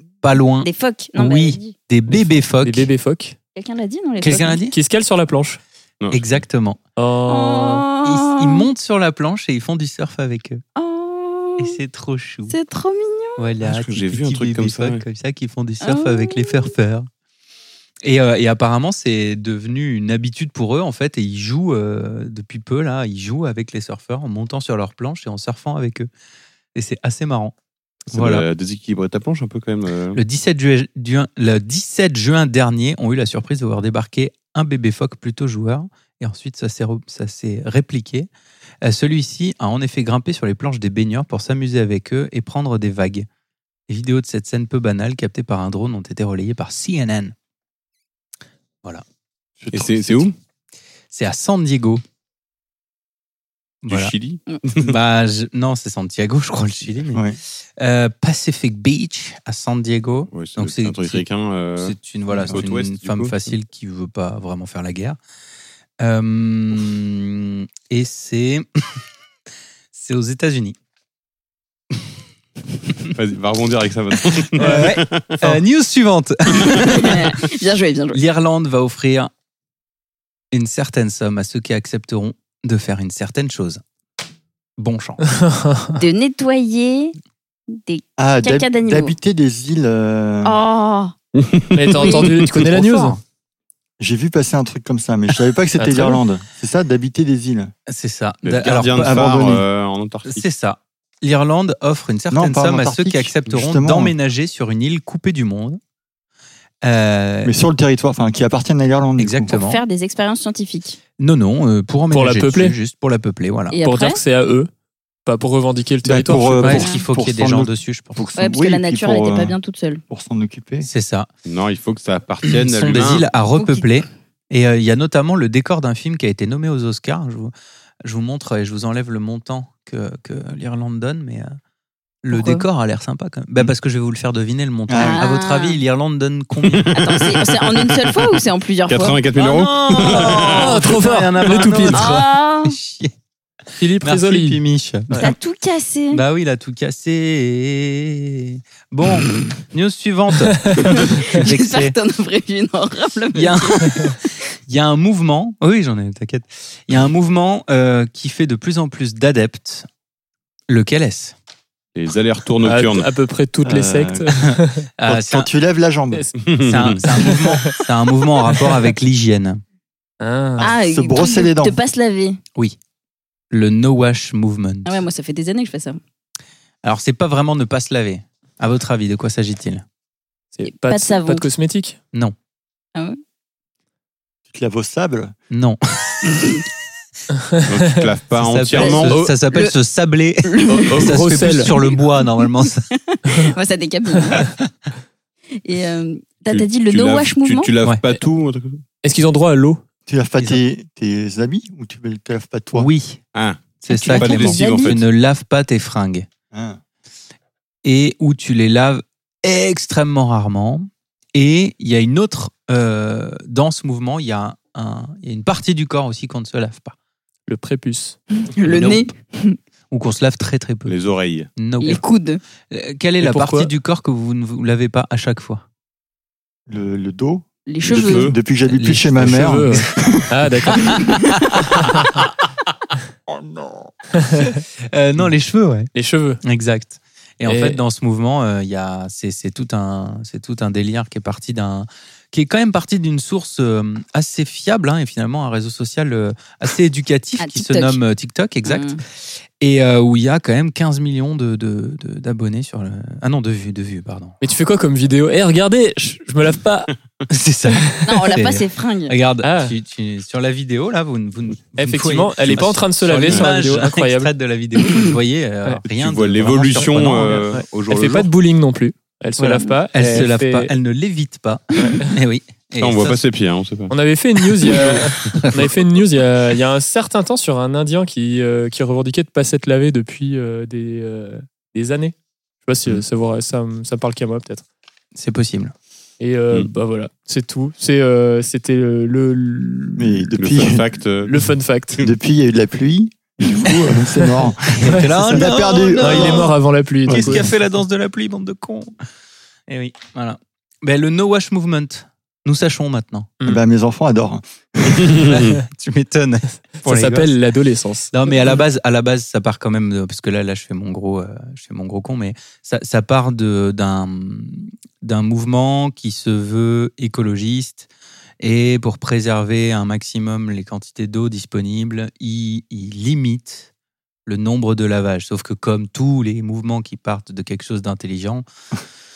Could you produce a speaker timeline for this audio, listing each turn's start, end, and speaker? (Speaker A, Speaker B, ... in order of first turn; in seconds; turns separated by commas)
Speaker A: 0.2-2.9, Speaker B: 0.6-1.8, Speaker C: 2.1-3.4, Speaker B: 3.5-4.6, Speaker A: 4.2-4.8, Speaker C: 4.7-5.6, Speaker D: 6.0-6.4, Speaker A: 6.1-6.8, Speaker C: 7.0-7.8, Speaker B: 7.3-8.7, Speaker A: 8.0-10.6, Speaker B: 10.8-11.8, Speaker A: 11.6-12.6, Speaker B: 12.5-13.4, Speaker A: 13.4-17.1, Speaker D: 13.6-15.0, Speaker B: 15.8-16.7, Speaker A: 18.0-26.1, Speaker A: 26.8-27.5, Speaker A: 28.1-28.4, Speaker D: 28.1-30.2, Speaker A: 30.1-38.3, Speaker A: 38.8-43.3, Speaker A: 43.9-47.4, Speaker E: 49.6-50.3, Speaker D: 49.7-50.3, Speaker A: 51.1-52.0, Speaker A: 53.8-54.1, Speaker D: 53.9-55.0, Speaker A: 54.8-57.2, Speaker E: 57.1-57.4, Speaker A: 57.8-61.2, Speaker D: 60.3-63.4, Speaker A: 61.8-65.2, Speaker A: 66.0-68.7, Speaker A: 69.9-70.8, Speaker D: 73.1-75.5, Speaker A: 74.5-77.4, Speaker B: 76.7-78.2, Speaker A: 78.1-79.3, Speaker A: 80.5-83.8, Speaker A: 84.8-85.2, Speaker C: 85.3-86.0, Speaker B: 86.0-87.2, Speaker B: 87.7-89.1, Speaker E: 88.2-90.6, Speaker B: 90.4-91.1, Speaker D: 91.3-92.7, Speaker C: 91.7-93.2, Speaker A: 92.7-93.2, Speaker E: 94.0-97.7, Speaker C: 95.8-96.2, Speaker A: 97.9-99.2, Speaker D: 98.5-100.5, Speaker E: 99.0-99.7, Speaker A: 100.2-105.8, Speaker E: 102.3-104.1, Speaker A: 106.8-107.5, Speaker E: 107.5-109.5, Speaker A: 109.2-109.8, Speaker B: 109.5-111.0, Speaker A: 111.2-113.8, Speaker C: 112.1-112.8, Speaker B: 113.7-114.2, Speaker C: 113.8-114.7, Speaker C: 115.3-116.8, Speaker E: 116.0-119.5, Speaker A: 116.6-118.2, Speaker B: 116.7-117.0, Speaker B: 118.4-120.0, Speaker E: 120.1-120.9, Speaker A: 120.8-121.3, Speaker D: 121.5-123.3, Speaker A: 122.4-127.5, Speaker B: 123.6-123.8, Speaker A: 128.0-131.6, Speaker A: 132.2-136.9, Speaker B: 132.3-132.7, Speaker E: 134.9-135.2, Speaker B: 135.0-135.8, Speaker D: 136.6-138.2, Speaker B: 136.9-139.2, Speaker D: 138.9-140.9, Speaker A: 139.3-143.1, Speaker C: 140.4-142.3, Speaker B: 141.9-142.8, Speaker C: 143.8-145.3, Speaker A: 144.0-145.3, Speaker B: 145.1-146.2, Speaker A: 146.1-152.0, Speaker B: 150.9-154.2, Speaker A: 153.3-154.1, Speaker A: 154.7-159.9, Speaker A: 160.7-161.3, Speaker D: 161.9-163.1, Speaker C: 162.6-164.9, Speaker E: 163.6-166.3, Speaker A: 165.0-165.5, Speaker C: 166.1-166.4, Speaker D: 166.4-167.0, Speaker A: 166.6-169.6, Speaker C: 167.1-167.8, Speaker C: 170.2-170.7, Speaker E: 170.6-171.8, Speaker B: 170.6-172.4, Speaker A: 173.5-175.0, Speaker B: 174.8-176.0, Speaker A: 176.8-179.8, Speaker C: 180.5-182.0, Speaker B: 180.7-181.5, Speaker E: 184.5-185.3, Speaker A: 185.5-186.4, Speaker D: 187.7-189.3, Speaker A: 188.3-192.9, Speaker B: 188.8-189.7, Speaker B: 190.4-191.0, Speaker C: 190.9-191.7, Speaker B: 191.8-194.5, Speaker B: 195.6-197.7, Speaker D: 196.5-198.8, Speaker C: 199.0-199.8, Speaker E: 200.1-202.9, Speaker A: 202.7-203.2, Speaker D: 203.3-205.0, Speaker A: 203.8-206.3, Speaker B: 203.9-204.9, Speaker E: 206.5-206.8, Speaker A: 207.8-216.9, Speaker C: 217.5-218.2, Speaker B: 218.4-219.6, Speaker A: 218.6-219.1, Speaker A: 219.9-220.9, Speaker D: 220.9-221.5, Speaker A: 221.6-222.0, Speaker B: 221.8-222.4, Speaker A: 222.7-225.6, Speaker C: 223.2-223.7, Speaker E: 226.7-230.5, Speaker B: 227.7-228.3, Speaker D: 227.8-228.3, Speaker A: 228.7-229.6, Speaker C: 229.2-231.0, Speaker A: 230.7-232.3, Speaker C: 234.2-234.6, Speaker A: 234.9-235.9, Speaker C: 235.9-236.4, Speaker A: 236.4-249.0, Speaker C: 237.5-237.8, Speaker B: 247.4-248.0, Speaker B: 248.6-249.0, Speaker A: 249.6-254.4, Speaker C: 254.4-256.9, Speaker A: 257.3-267.5, Speaker B: 258.1-259.2, Speaker C: 259.4-259.8, Speaker C: 261.8-264.3, Speaker D: 265.9-268.3, Speaker C: 266.8-270.7, Speaker A: 269.4-273.2, Speaker C: 271.8-272.1, Speaker D: 272.8-273.9, Speaker C: 273.9-284.6, Speaker D: 274.6-275.1, Speaker A: 274.8-275.7, Speaker A: 285.1-285.7, Speaker C: 286.2-290.3, Speaker E: 290.0-290.9, Speaker D: 290.4-291.5, Speaker C: 291.2-292.0, Speaker E: 292.0-296.5, Speaker A: 294.7-296.5, Speaker C: 295.0-295.4, Speaker C: 296.0-297.5, Speaker E: 297.1-297.5, Speaker A: 297.1-298.9, Speaker A: 299.7-303.3, Speaker E: 303.4-305.3, Speaker D: 304.9-305.6, Speaker A: 305.7-307.4, Speaker C: 306.8-308.1, Speaker A: 308.1-317.9, Speaker A: 318.4-323.7, Speaker A: 324.3-328.4